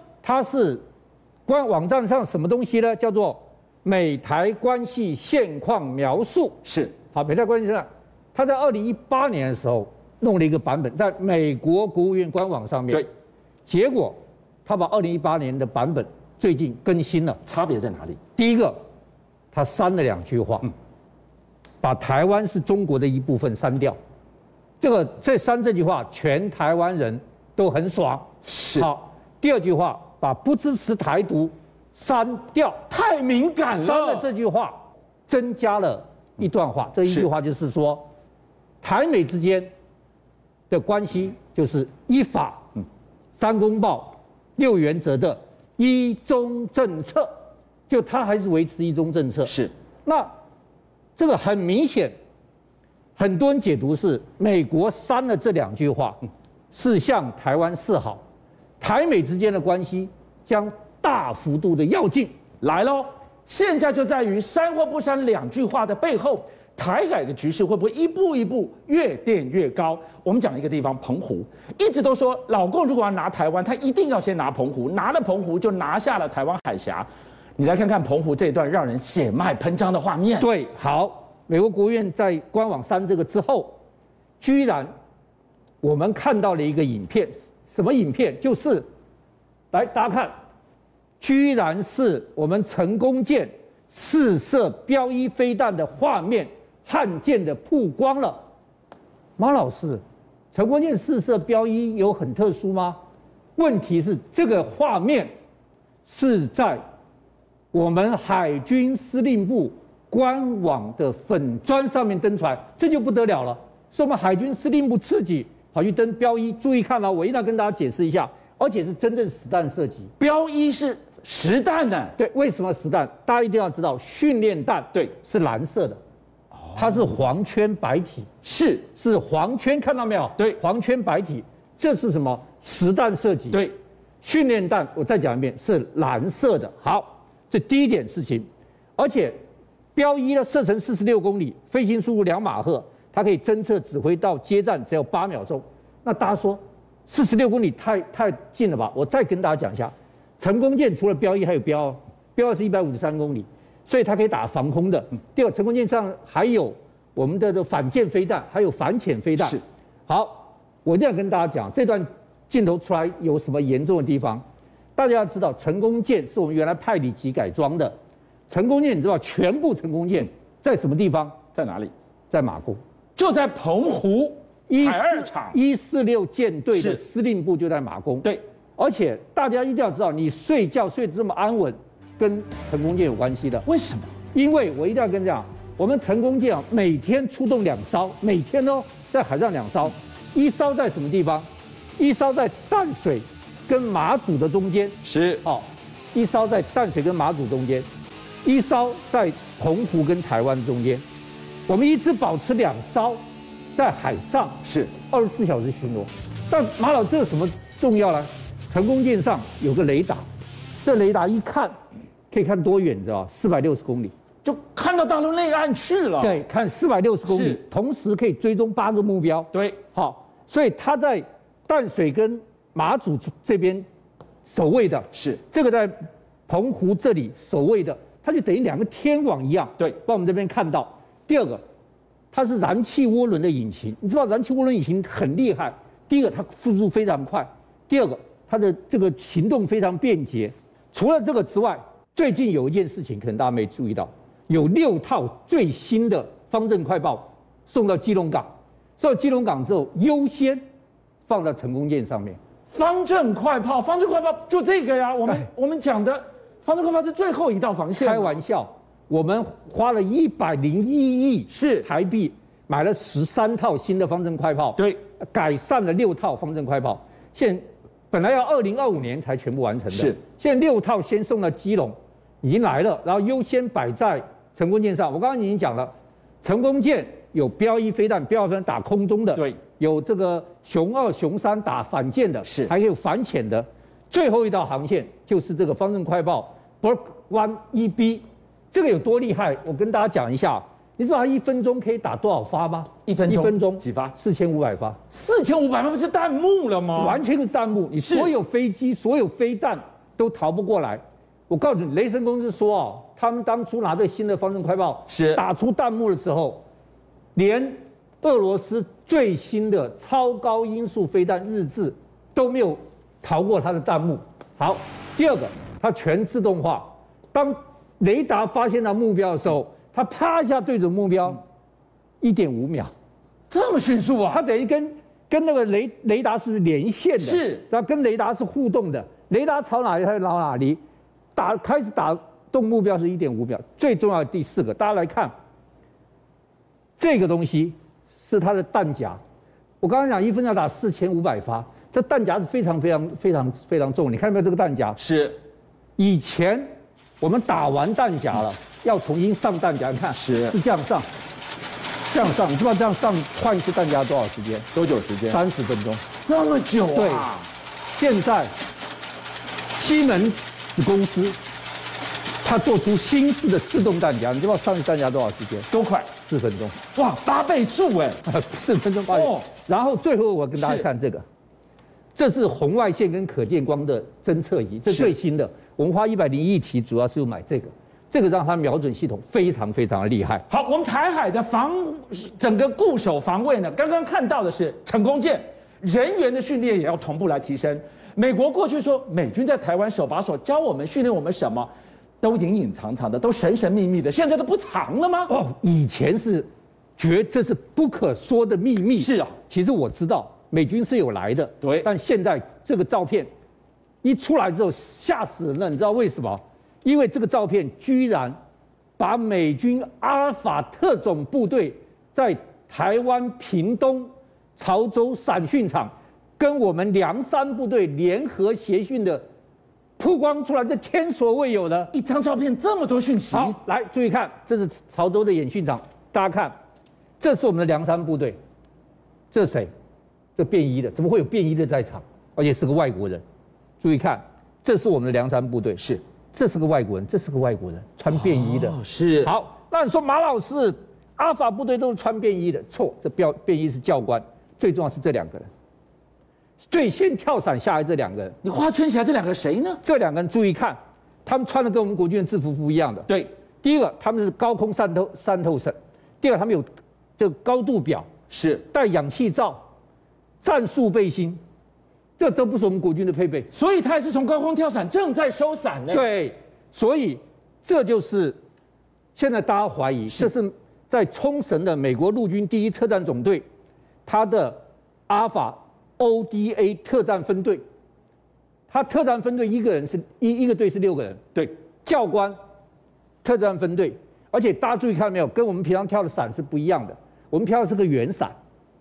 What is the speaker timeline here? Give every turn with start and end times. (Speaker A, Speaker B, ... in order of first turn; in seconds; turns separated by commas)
Speaker A: 0.2-0.8, Speaker A: 1.4-6.6, Speaker B: 6.6-6.9, Speaker A: 7.1-13.1, Speaker A: 13.7-17.4, Speaker B: 17.4-18.2, Speaker A: 18.4-18.8, Speaker A: 19.5-20.7, Speaker A: 21.8-24.0, Speaker A: 24.8-32.8, Speaker B: 28.4-28.9, Speaker B: 32.9-34.2, Speaker A: 33.7-38.1, Speaker A: 38.8-39.7, Speaker A: 40.7-42.7, Speaker A: 43.3-47.3, Speaker A: 47.9-50.3, Speaker B: 49.5-49.7, Speaker A: 51.2-52.1, Speaker A: 53.2-56.2, Speaker A: 56.7-58.2, Speaker A: 58.8-62.3, Speaker B: 62.6-80.5, Speaker A: 80.4-83.8, Speaker A: 84.4-84.9, Speaker A: 85.8-88.8, Speaker A: 89.7-90.3, Speaker A: 91.2-98.4, Speaker A: 99.4-100.0, Speaker A: 100.5-103.0, Speaker A: 103.5-105.3, Speaker A: 106.0-106.8, Speaker A: 107.7-120.1, Speaker B: 120.2-122.1, Speaker A: 122.2-126.0, Speaker A: 126.7-128.3, Speaker B: 128.4-128.8, Speaker A: 128.9-133.6, Speaker A: 134.2-138.4, Speaker A: 139.0-139.3, Speaker A: 139.9-164.4, Speaker A: 164.9-167.9, Speaker A: 168.5-171.4, Speaker B: 171.5-171.9, Speaker A: 172.3-172.8, Speaker B: 173.2-175.6, Speaker A: 174.7-183.6, Speaker B: 176.7-177.0, Speaker B: 183.6-184.1, Speaker A: 184.3-191.5, Speaker A: 192.0-197.9, Speaker B: 195.0-195.4, Speaker A: 198.4-201.0, Speaker A: 201.7-203.2, Speaker A: 203.7-210.2, Speaker B: 204.6-204.9, Speaker A: 210.8-211.7, Speaker A: 212.3-214.1, Speaker B: 214.4-216.4, Speaker A: 216.2-223.8, Speaker B: 217.3-217.6, Speaker B: 219.5-219.8, Speaker A: 224.5-225.9, Speaker B: 225.1-225.4, Speaker A: 226.5-231.6, Speaker A: 232.3-250.6, Speaker A: 251.3-252.4, Speaker B: 252.7-258.4, Speaker A: 258.0-275.9, Speaker B: 261.5-261.9, Speaker B: 269.9-270.2, Speaker A: 276.4-295.0, Speaker B: 282.4-282.7, Speaker B: 293.1-294.1, Speaker B: 295.1-297.2, Speaker A: 296.9-306.6, Speaker B: 298.0-298.3, Speaker B: 305.1-305.4, Speaker A: 307.3-321.4, Speaker A: 322.2-322.9, Speaker B: 323.5-324.4, Speaker A: 324.3-330.8, Speaker B: 327.2-327.6, Speaker A: 331.3-335.3, Speaker A: 337.0-339.2, Speaker A: 339.8-345.0, Speaker B: 345.0-345.4, Speaker A: 346.0-346.7, Speaker A: 347.2-351.1, Speaker B: 350.1-350.5, Speaker A: 352.1-354.7, Speaker B: 354.7-355.4, Speaker A: 355.3-356.0, Speaker B: 356.2-357.5, Speaker A: 356.9-357.3, Speaker A: 358.0-358.5, Speaker A: 359.8-361.4, Speaker A: 362.4-365.7, Speaker B: 365.7-366.1, Speaker A: 366.2-366.8, Speaker B: 366.9-368.2, Speaker A: 368.2-371.2, Speaker B: 369.1-369.5, Speaker B: 370.6-370.9, Speaker A: 372.1-380.4, Speaker B: 374.9-375.1, Speaker B: 380.5-391.7, Speaker B: 392.2-395.3, Speaker A: 395.3-403.3, Speaker B: 399.0-399.3, Speaker B: 401.6-401.9, Speaker A: 404.0-408.4, Speaker A: 409.0-419.2, Speaker A: 420.0-421.9, Speaker B: 421.9-423.6, Speaker A: 423.3-426.5, Speaker A: 427.2-428.4, Speaker A: 429.3-429.7, Speaker A: 430.4-433.2, Speaker A: 433.8-445.5, Speaker B: 438.1-439.3, Speaker A: 446.7-448.4, Speaker B: 448.4-449.8, Speaker A: 449.8-453.1, Speaker A: 453.6-456.6, Speaker A: 457.2-458.1, Speaker B: 458.3-458.6, Speaker A: 458.7-459.6, Speaker A: 460.4-461.4, Speaker A: 462.2-463.5, Speaker B: 463.5-466.1, Speaker A: 465.9-468.4, Speaker A: 469.1-473.4, Speaker A: 474.1-477.6, Speaker A: 478.7-481.2, Speaker A: 481.8-482.4, Speaker A: 483.2-488.3